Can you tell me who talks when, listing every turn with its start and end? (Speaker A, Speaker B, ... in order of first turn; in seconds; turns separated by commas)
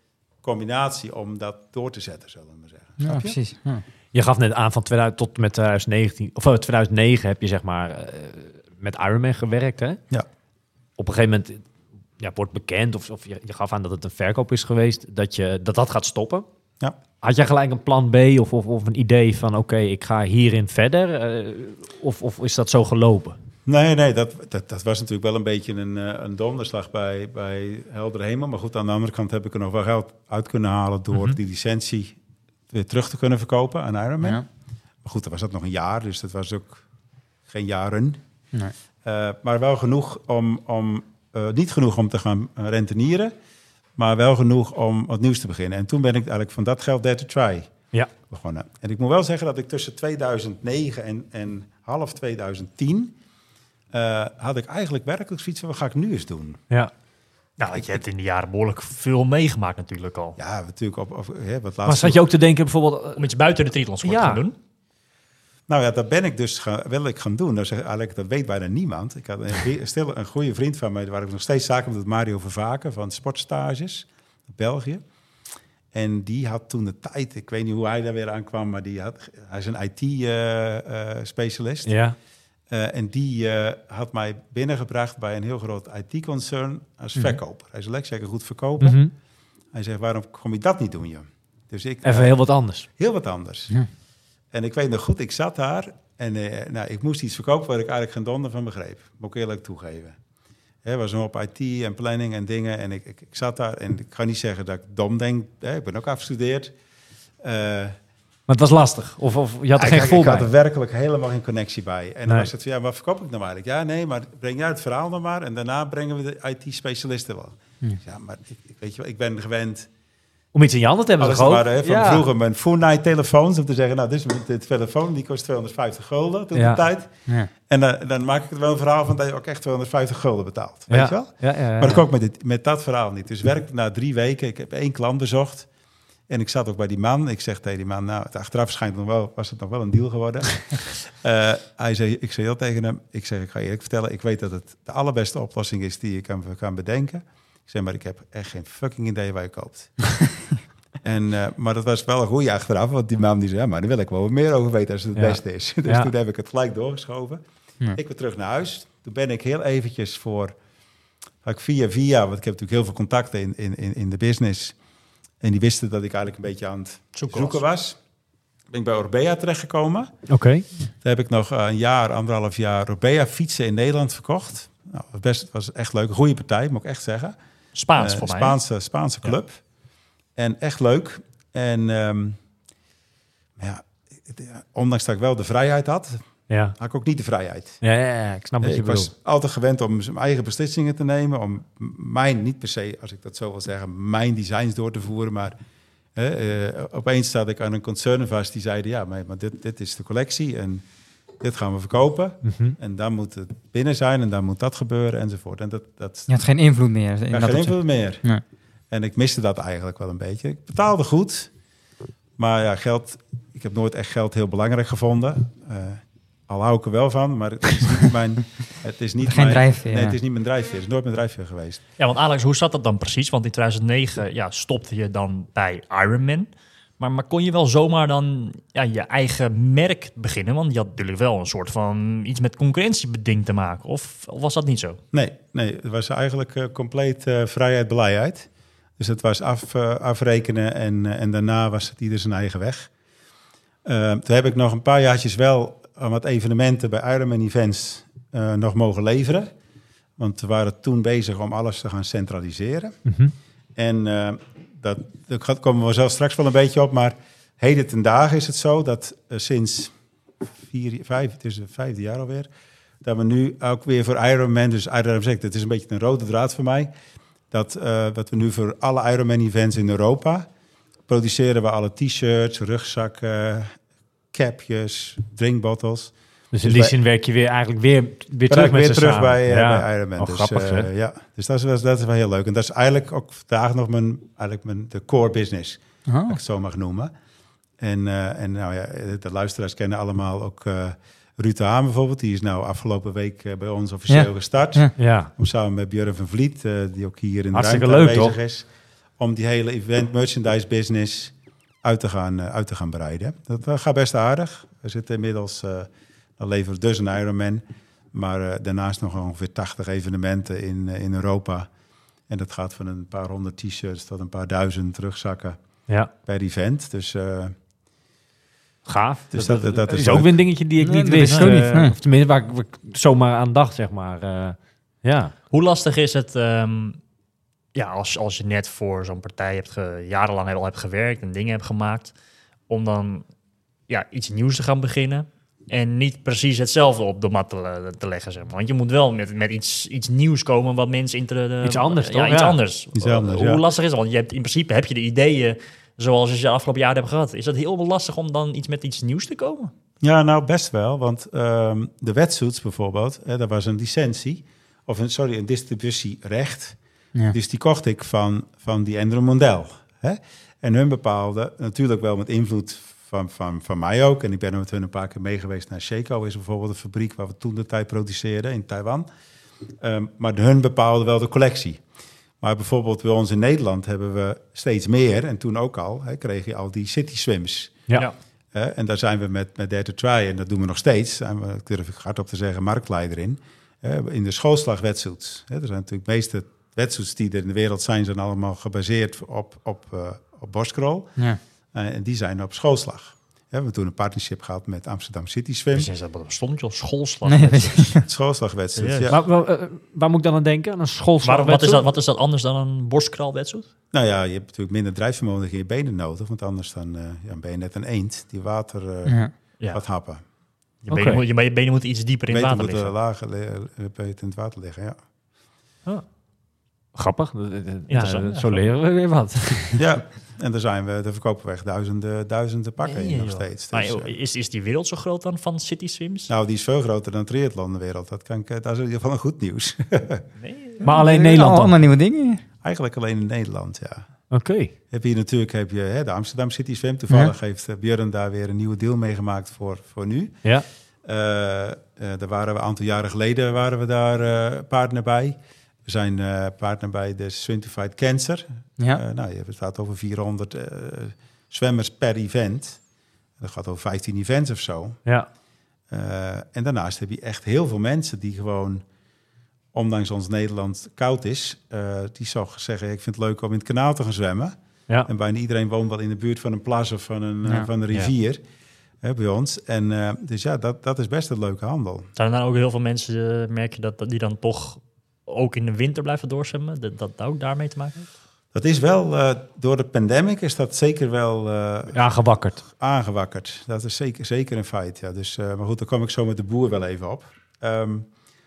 Speaker A: 0.4-3.4, Speaker B: 3.0-3.8, Speaker C: 4.1-10.0, Speaker C: 11.0-11.6, Speaker C: 12.2-16.4, Speaker C: 17.2-23.4, Speaker A: 23.6-32.1, Speaker A: 32.7-34.4, Speaker A: 35.0-36.8, Speaker A: 37.5-38.2, Speaker A: 39.0-43.3, Speaker A: 44.0-47.7, Speaker A: 48.3-53.1, Speaker A: 53.9-56.6, Speaker D: 57.6-60.4, Speaker A: 60.4-62.2, Speaker C: 61.8-63.2, Speaker D: 63.1-64.5, Speaker C: 64.0-64.4, Speaker A: 65.7-75.0, Speaker A: 75.9-81.9, Speaker C: 81.8-82.2, Speaker A: 82.7-89.0, Speaker C: 88.8-89.1, Speaker A: 89.7-92.3, Speaker C: 92.0-92.9, Speaker A: 92.9-93.8, Speaker A: 94.5-100.2, Speaker A: 100.8-106.7, Speaker A: 107.4-108.0, Speaker C: 108.5-110.5, Speaker A: 109.8-119.9, Speaker C: 120.5-122.3, Speaker A: 121.2-127.2, Speaker C: 126.5-126.8, Speaker A: 127.7-135.7, Speaker C: 130.9-132.0, Speaker A: 136.3-150.2, Speaker A: 151.0-157.4, Speaker C: 155.2-156.1, Speaker A: 157.9-160.6, Speaker A: 161.4-164.7, Speaker A: 165.4-168.0, Speaker D: 167.1-167.6, Speaker A: 168.7-170.1, Speaker C: 170.3-170.7, Speaker A: 171.0-177.4, Speaker D: 177.7-178.6, Speaker A: 177.9-179.6, Speaker A: 180.3-182.4, Speaker A: 183.6-186.2, Speaker C: 186.5-186.7, Speaker A: 186.8-187.8, Speaker C: 187.8-189.1, Speaker A: 188.6-195.6, Speaker A: 196.1-200.8, Speaker A: 201.4-206.3, Speaker C: 202.4-202.8, Speaker B: 206.3-208.4, Speaker A: 207.3-208.2, Speaker A: 208.9-211.5, Speaker A: 212.4-221.8, Speaker B: 219.2-220.2, Speaker D: 222.0-235.0, Speaker A: 235.1-242.9, Speaker A: 243.8-249.5, Speaker A: 250.2-253.0, Speaker C: 253.1-253.3, Speaker A: 253.8-259.9, Speaker A: 260.6-262.5, Speaker A: 263.0-266.9, Speaker A: 267.5-270.5, Speaker A: 271.1-273.8, Speaker A: 274.3-276.9, Speaker C: 276.5-280.9, Speaker A: 278.5-287.1, Speaker B: 286.1-286.4, Speaker A: 287.8-298.7, Speaker B: 294.1-294.9, Speaker C: 295.0-295.3, Speaker C: 297.5-298.4, Speaker A: 299.2-311.7, Speaker A: 312.3-315.6, Speaker A: 316.2-317.5, Speaker C: 318.9-325.3, Speaker A: 319.3-320.4, Speaker B: 320.8-321.9, Speaker D: 321.1-321.9, Speaker D: 325.5-327.0, Speaker D: 327.7-332.1, Speaker D: 332.7-333.2, Speaker D: 333.9-349.7, Speaker C: 341.6-342.6, Speaker A: 342.9-343.6, Speaker A: 350.0-356.8, Speaker A: 357.3-369.1, Speaker A: 369.8-371.8, Speaker A: 372.4-377.9, Speaker A: 378.5-391.1, Speaker A: 391.7-395.9, Speaker D: 395.7-397.9, Speaker B: 397.3-398.0, Speaker A: 398.0-399.2, Speaker D: 398.8-399.1, Speaker C: 399.1-401.9, Speaker D: 401.2-403.6, Speaker A: 403.9-410.2, Speaker B: 409.1-409.3, Speaker D: 410.9-412.9, Speaker C: 410.9-411.2, Speaker A: 412.3-415.0, Speaker C: 416.9-419.8, Speaker D: 417.9-418.6, Speaker A: 419.8-424.1, Speaker D: 422.8-426.3, Speaker A: 426.3-430.2, Speaker D: 430.4-430.8, Speaker C: 430.8-431.7, Speaker B: 430.8-432.4, Speaker A: 432.6-434.0, Speaker C: 434.3-434.7, Speaker A: 434.9-440.4, Speaker A: 441.0-452.8, Speaker A: 453.4-455.0, Speaker A: 455.9-458.8, Speaker A: 459.7-468.4, Speaker A: 469.0-472.1, Speaker D: 472.1-478.1, Speaker A: 478.5-482.0, Speaker C: 481.9-482.6, Speaker A: 482.6-488.1